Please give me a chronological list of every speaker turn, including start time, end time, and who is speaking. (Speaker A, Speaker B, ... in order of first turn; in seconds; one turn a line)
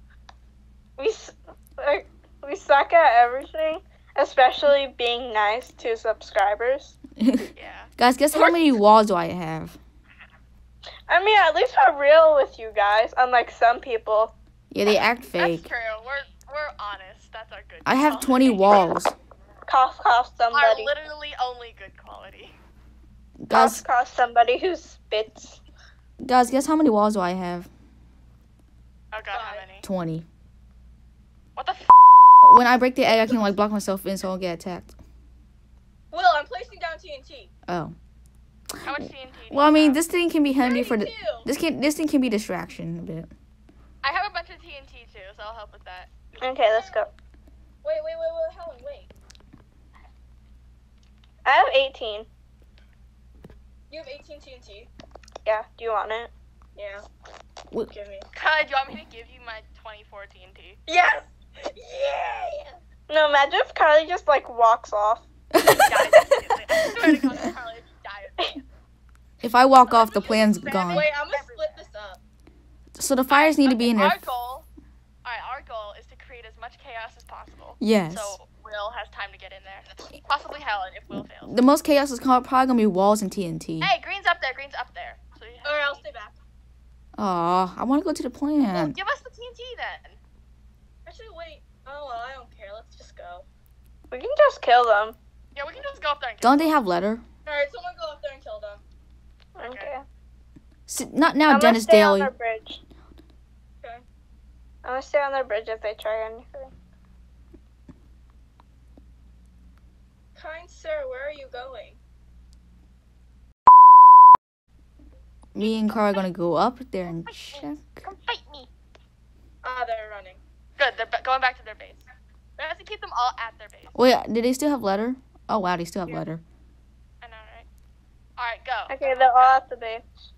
Speaker A: 1.0-7.0
Speaker B: 7.2-9.8
Speaker C: 7.6-8.6
Speaker A: 11.1-14.3
Speaker B: 14.7-15.7
Speaker C: 15.4-18.9
Speaker B: 17.9-19.1
Speaker A: 19.7-20.9
Speaker C: 20.5-22.6
Speaker B: 23.4-23.8
Speaker A: 23.5-25.6
Speaker B: 26.2-27.7
Speaker C: 29.1-29.9
Speaker D: 29.3-29.7
Speaker B: 29.8-30.2
Speaker C: 31.6-32.3
Speaker B: 32.4-34.9
Speaker D: 36.1-37.5
Speaker B: 37.7-38.0
Speaker C: 38.8-40.0
Speaker B: 39.5-43.3
Speaker D: 40.6-41.5
Speaker C: 44.0-46.1
Speaker A: 46.4-47.1
Speaker D: 46.6-47.1
Speaker D: 47.8-49.1
Speaker A: 51.5-52.3
Speaker D: 53.9-54.9
Speaker A: 55.5-56.3
Speaker D: 56.8-57.1
Speaker D: 57.9-58.3
Speaker C: 58.3-60.8
Speaker D: 60.9-62.8
Speaker A: 63.1-65.3
Speaker B: 65.5-67.5
Speaker C: 65.7-68.6
Speaker B: 69.4-71.1
Speaker C: 69.9-71.8
Speaker D: 70.8-72.2
Speaker B: 73.0-74.2
Speaker C: 73.3-74.7
Speaker C: 75.2-81.5
Speaker B: 77.8-78.4
Speaker B: 81.4-83.9
Speaker C: 83.8-86.0
Speaker D: 85.6-86.4
Speaker B: 87.2-89.0
Speaker C: 88.7-90.2
Speaker D: 91.0-93.5
Speaker A: 94.1-95.2
Speaker C: 95.5-96.7
Speaker B: 96.4-97.2
Speaker D: 97.5-98.8
Speaker A: 99.6-100.0
Speaker B: 100.9-102.3
Speaker A: 101.5-102.8
Speaker A: 104.8-106.7
Speaker D: 110.3-112.0
Speaker B: 115.5-118.1
Speaker C: 117.3-118.7
Speaker D: 119.6-120.4
Speaker C: 120.8-122.0
Speaker C: 122.6-124.0
Speaker B: 123.9-126.4
Speaker C: 127.2-127.7
Speaker C: 128.4-129.6
Speaker A: 128.9-130.1